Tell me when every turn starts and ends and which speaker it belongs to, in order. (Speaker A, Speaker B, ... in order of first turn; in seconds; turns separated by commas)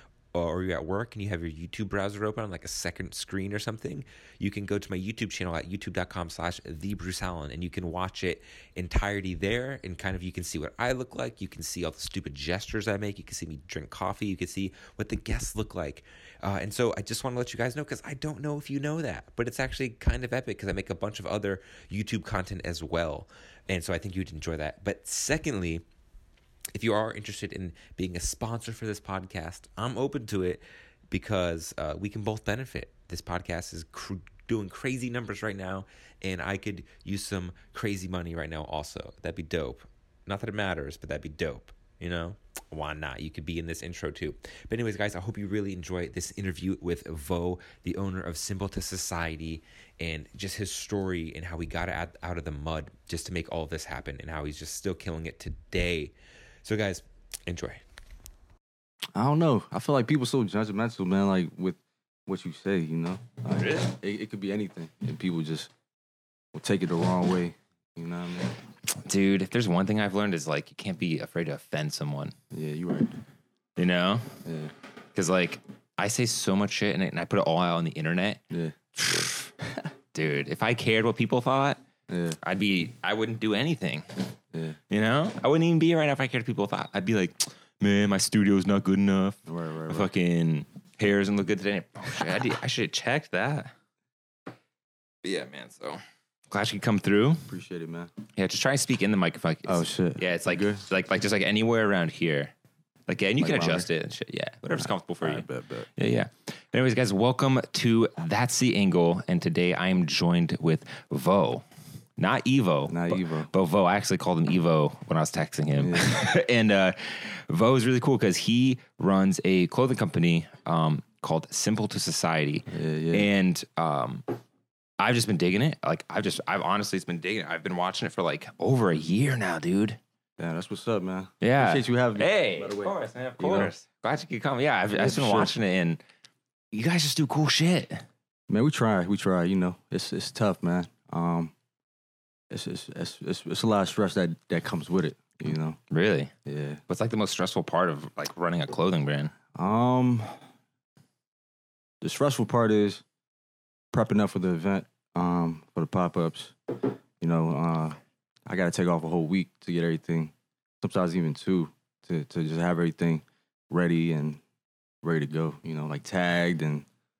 Speaker A: 0.3-25.8, Speaker A: 26.7-56.1, Speaker A: 56.6-57.8, Speaker B: 59.1-65.7, Speaker B: 66.5-68.6, Speaker C: 69.0-72.3, Speaker B: 72.5-73.1, Speaker C: 73.8-74.3, Speaker B: 74.4-74.7, Speaker C: 75.1-78.4, Speaker B: 78.5-78.8, Speaker C: 79.0-79.5, Speaker C: 80.1-81.8, Speaker B: 82.1-82.4, Speaker C: 82.4-84.0, Speaker C: 84.9-93.7, Speaker B: 89.5-90.1, Speaker C: 95.2-97.4, Speaker B: 97.5-98.1, Speaker C: 98.3-102.5, Speaker B: 99.6-100.8, Speaker C: 103.1-105.4, Speaker B: 103.4-103.9, Speaker B: 104.8-105.9, Speaker C: 106.0-111.6, Speaker C: 112.2-124.2, Speaker B: 112.9-113.5, Speaker B: 115.8-116.2, Speaker B: 122.7-123.3, Speaker C: 125.0-130.0, Speaker B: 130.4-133.7, Speaker C: 131.4-136.0, Speaker B: 134.9-135.6, Speaker C: 136.7-138.0, Speaker B: 138.5-141.5, Speaker B: 142.5-145.8, Speaker C: 145.9-146.3, Speaker B: 146.4-146.8, Speaker C: 146.9-149.3, Speaker B: 149.5-150.3, Speaker B: 152.0-153.0, Speaker B: 153.9-156.5, Speaker B: 157.2-164.4, Speaker B: 165.0-166.8